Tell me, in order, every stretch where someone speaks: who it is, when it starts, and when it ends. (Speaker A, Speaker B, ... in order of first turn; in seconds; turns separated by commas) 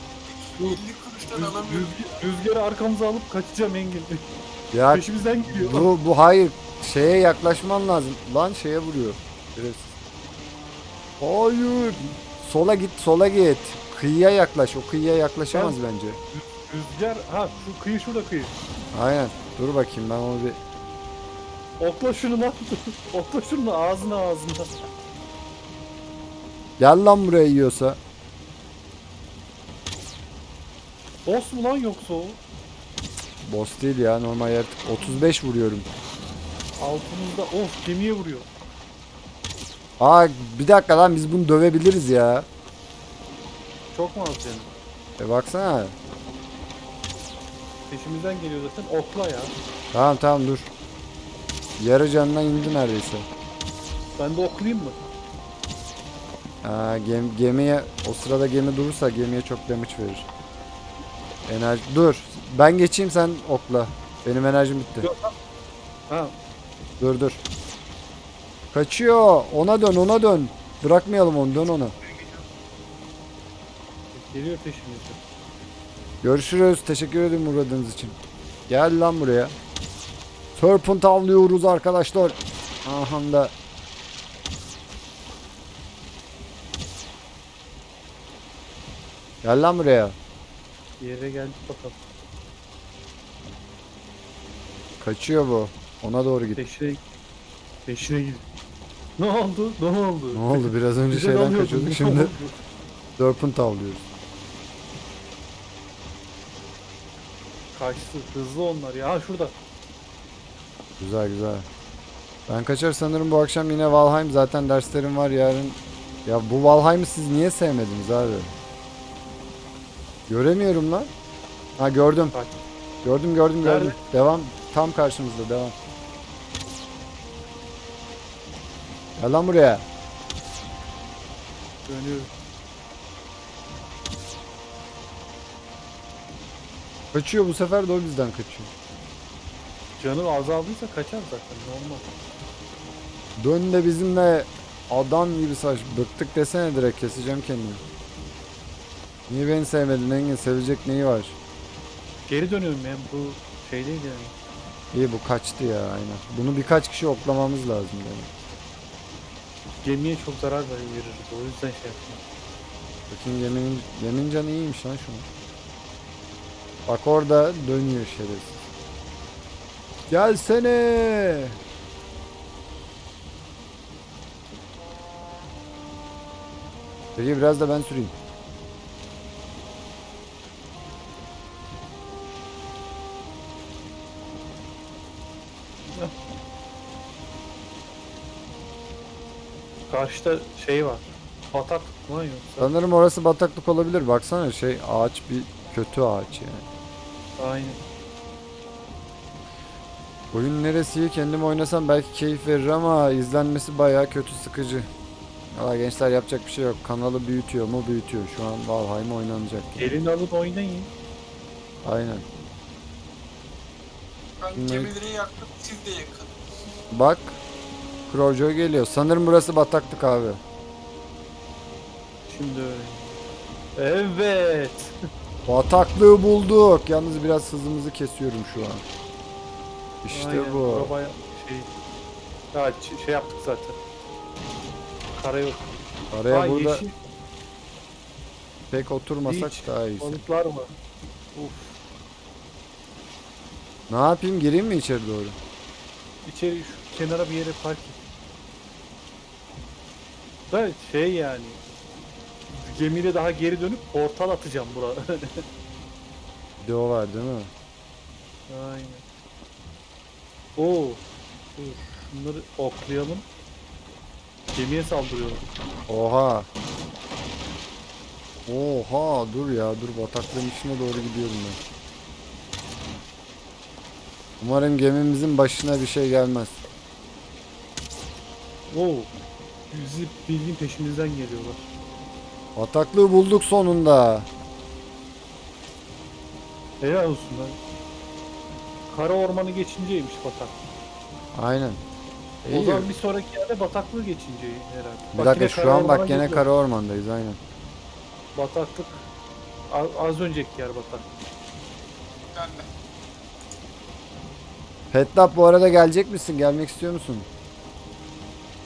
Speaker A: 0.4-2.3, Speaker B: 1.3-4.2, Speaker C: 4.7-9.9, Speaker B: 4.9-5.9, Speaker C: 11.2-16.2, Speaker B: 15.5-15.8, Speaker B: 16.3-18.5, Speaker C: 18.9-20.6, Speaker B: 21.8-24.7, Speaker C: 26.8-28.0, Speaker B: 31.2-32.4, Speaker C: 33.4-35.9, Speaker B: 36.8-38.5, Speaker C: 40.0-42.5, Speaker B: 43.9-44.7, Speaker C: 45.2-46.0, Speaker B: 47.9-49.5, Speaker C: 49.9-50.7, Speaker C: 51.8-53.2, Speaker B: 54.2-55.0, Speaker C: 56.6-60.3, Speaker C: 61.4-65.1, Speaker B: 65.0-65.3, Speaker B: 66.1-66.3, Speaker C: 67.0-67.4, Speaker C: 68.7-71.9, Speaker A: 72.2-72.4, Speaker B: 74.1-75.2, Speaker C: 76.2-78.2, Speaker C: 78.7-79.5, Speaker C: 80.5-83.5, Speaker C: 89.4-90.2, Speaker B: 91.0-91.9, Speaker C: 95.0-96.6, Speaker B: 96.5-97.0, Speaker B: 97.9-98.4, Speaker B: 99.2-102.5, Speaker C: 100.3-102.3, Speaker C: 103.2-104.1, Speaker B: 107.7-109.5, Speaker C: 111.0-111.7, Speaker C: 112.5-118.5, Speaker C: 120.3-121.1, Speaker C: 121.8-122.4, Speaker C: 123.0-125.7, Speaker B: 123.6-124.0, Speaker C: 129.2-129.8, Speaker B: 131.8-132.3, Speaker C: 137.1-138.7, Speaker B: 140.0-142.1, Speaker C: 143.4-147.8, Speaker C: 149.3-151.4, Speaker B: 152.2-154.3, Speaker C: 154.9-158.3, Speaker B: 159.8-162.2, Speaker C: 163.1-165.2, Speaker C: 166.9-168.6, Speaker C: 170.1-171.6, Speaker C: 177.2-178.1, Speaker B: 189.9-192.7, Speaker C: 192.6-196.6, Speaker B: 197.4-197.8, Speaker C: 200.3-204.9, Speaker C: 205.5-209.9, Speaker B: 209.8-210.9, Speaker C: 211.8-212.2, Speaker A: 214.4-216.4, Speaker C: 214.6-214.9, Speaker C: 216.9-217.4, Speaker C: 218.1-220.4, Speaker B: 222.3-223.1, Speaker B: 223.8-224.9, Speaker C: 225.5-228.8, Speaker C: 230.0-230.9, Speaker B: 230.1-231.7, Speaker B: 232.5-233.8, Speaker B: 235.1-236.9, Speaker C: 236.1-236.8, Speaker C: 238.7-240.2, Speaker B: 239.2-240.7, Speaker B: 241.3-241.8, Speaker C: 243.9-245.3, Speaker B: 246.2-248.0, Speaker B: 250.5-251.6, Speaker B: 252.5-255.4, Speaker C: 256.6-257.5, Speaker B: 258.5-259.0, Speaker B: 260.6-261.0, Speaker B: 261.6-263.2, Speaker B: 264.5-265.4, Speaker C: 265.9-266.5, Speaker C: 268.5-271.6, Speaker C: 274.4-276.6, Speaker B: 278.7-279.1, Speaker B: 279.7-281.6, Speaker C: 282.6-284.3, Speaker B: 286.8-287.6, Speaker B: 288.9-290.5, Speaker C: 291.3-291.8, Speaker C: 292.4-292.9, Speaker B: 292.5-296.4, Speaker C: 295.1-297.4, Speaker B: 298.3-299.0, Speaker B: 299.7-301.0, Speaker A: 302.3-302.7, Speaker C: 304.9-307.3